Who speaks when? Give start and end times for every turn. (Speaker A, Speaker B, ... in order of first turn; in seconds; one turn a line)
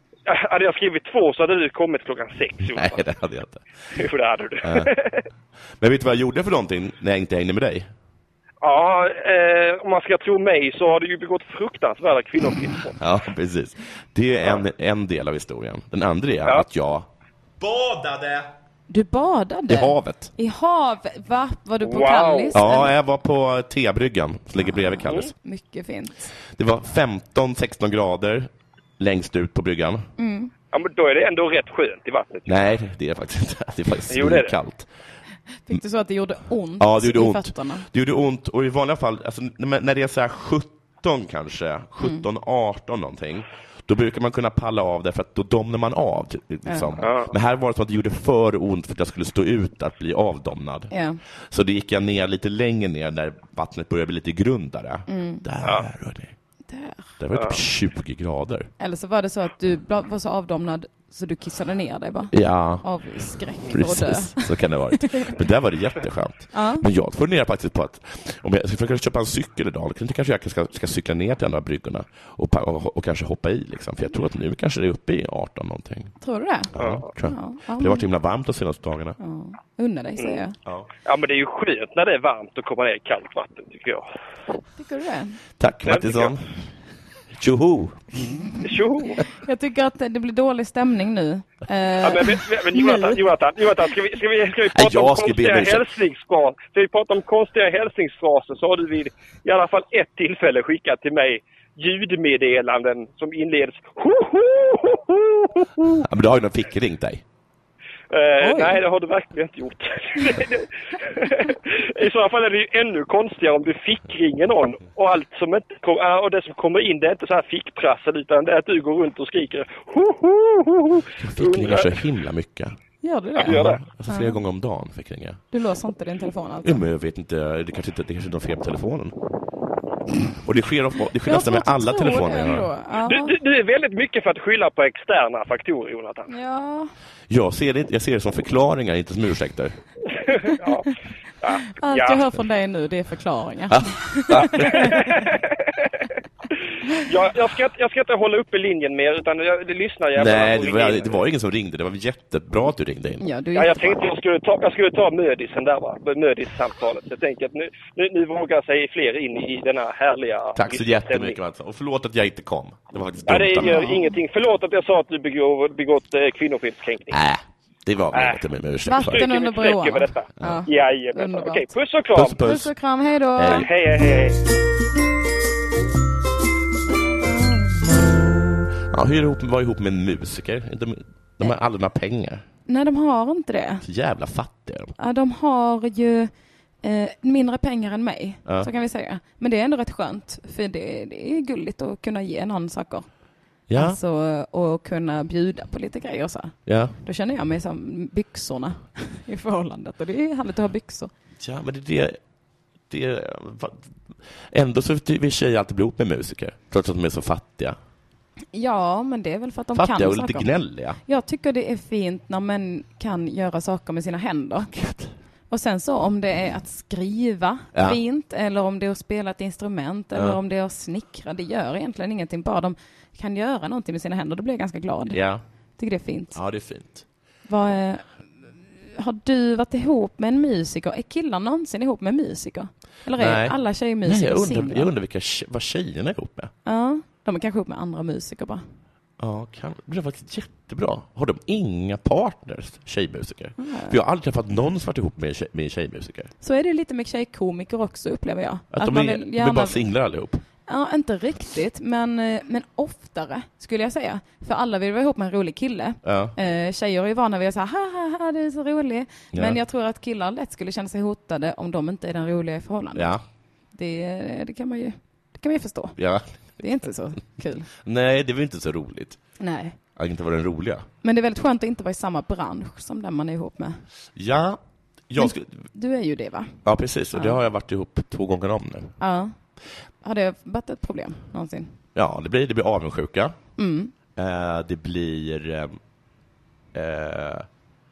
Speaker A: 0.3-3.0
Speaker B: 2.7-3.6
Speaker A: 4.0-5.3
Speaker B: 4.6-4.9
Speaker B: 5.8-7.9
Speaker A: 8.6-13.0
Speaker B: 13.0-17.1
Speaker B: 17.6-18.5
Speaker C: 18.9-22.9
Speaker B: 19.7-20.3
Speaker A: 21.9-22.6
Speaker B: 22.5-25.3
Speaker C: 24.6-26.3
Speaker B: 26.5-30.1
Speaker C: 30.2-30.5
Speaker A: 30.7-32.6
Speaker B: 32.5-34.9
Speaker A: 34.1-34.5
Speaker C: 35.7-37.9
Speaker B: 36.8-50.9
Speaker C: 46.7-47.0
Speaker A: 47.0-47.3
Speaker C: 50.9-51.2
Speaker B: 51.5-56.3
Speaker C: 55.1-55.5
Speaker C: 56.7-57.1
Speaker B: 57.2-58.7
Speaker C: 58.8-65.4
Speaker B: 62.3-62.9
Speaker B: 63.7-76.1
Speaker C: 66.5-66.8
Speaker C: 76.2-76.7
Speaker B: 76.7-79.2
Speaker A: 76.8-77.0
Speaker C: 77.2-78.1
Speaker C: 79.2-80.6
Speaker A: 81.0-84.1
Speaker C: 84.8-85.4
Speaker B: 85.6-86.5
Speaker A: 85.9-86.4
Speaker B: 87.3-88.0
Speaker A: 88.6-89.2
Speaker C: 89.2-93.2
Speaker A: 92.0-106.0
Speaker B: 94.7-95.9
Speaker B: 106.0-107.2
Speaker A: 108.1-122.0
Speaker C: 108.4-108.8
Speaker B: 121.2-122.8
Speaker C: 123.0-124.4
Speaker A: 123.4-123.8
Speaker B: 123.4-125.4
Speaker C: 125.5-126.8
Speaker B: 126.6-129.1
Speaker B: 130.4-132.7
Speaker C: 131.3-133.3
Speaker A: 133.1-136.3
Speaker C: 136.3-136.9
Speaker B: 137.3-139.8
Speaker A: 140.3-142.2
Speaker C: 141.7-145.3
Speaker B: 143.7-144.9
Speaker A: 144.5-146.1
Speaker A: 146.9-151.2
Speaker B: 150.2-153.2
Speaker C: 153.2-154.0
Speaker A: 153.6-161.4
Speaker B: 160.6-163.8
Speaker A: 163.3-167.2
Speaker C: 163.6-164.1
Speaker B: 167.1-169.2
Speaker A: 168.1-168.4
Speaker C: 168.8-171.7
Speaker A: 169.1-172.4
Speaker B: 172.2-172.7
Speaker C: 172.4-173.7
Speaker B: 173.4-173.7
Speaker A: 173.5-174.4
Speaker B: 177.9-182.4
Speaker C: 182.7-183.8
Speaker B: 183.8-184.9
Speaker C: 185.0-186.3
Speaker C: 186.8-193.1
Speaker B: 193.7-194.0
Speaker C: 193.8-201.1
Speaker B: 196.7-196.9
Speaker B: 201.4-202.2
Speaker B: 202.9-203.9
Speaker B: 204.5-207.8
Speaker C: 208.5-210.5
Speaker B: 209.7-211.0
Speaker C: 211.1-214.7
Speaker B: 214.7-215.1
Speaker C: 215.5-225.2
Speaker B: 217.7-218.0
Speaker B: 220.1-220.4
Speaker B: 225.1-225.4
Speaker C: 225.8-226.4
Speaker B: 226.3-227.1
Speaker C: 227.5-228.1
Speaker C: 228.8-234.9
Speaker B: 233.2-236.5
Speaker C: 236.7-238.6
Speaker B: 239.2-246.3
Speaker C: 243.6-244.0
Speaker C: 246.4-249.9
Speaker B: 248.7-250.4
Speaker C: 250.7-263.1
Speaker B: 256.0-256.3
Speaker B: 259.3-259.6
Speaker B: 262.9-263.2
Speaker C: 263.8-266.0
Speaker B: 266.0-266.4
Speaker C: 266.6-267.7
Speaker B: 267.8-269.2
Speaker C: 269.4-269.8
Speaker B: 270.0-270.9
Speaker C: 271.0-273.8
Speaker B: 274.1-275.6
Speaker C: 275.2-276.6
Speaker B: 276.6-279.0
Speaker C: 279.0-279.4
Speaker C: 280.0-281.8
Speaker B: 281.9-283.4
Speaker C: 283.6-283.9
Speaker B: 284.2-285.8
Speaker B: 286.7-287.5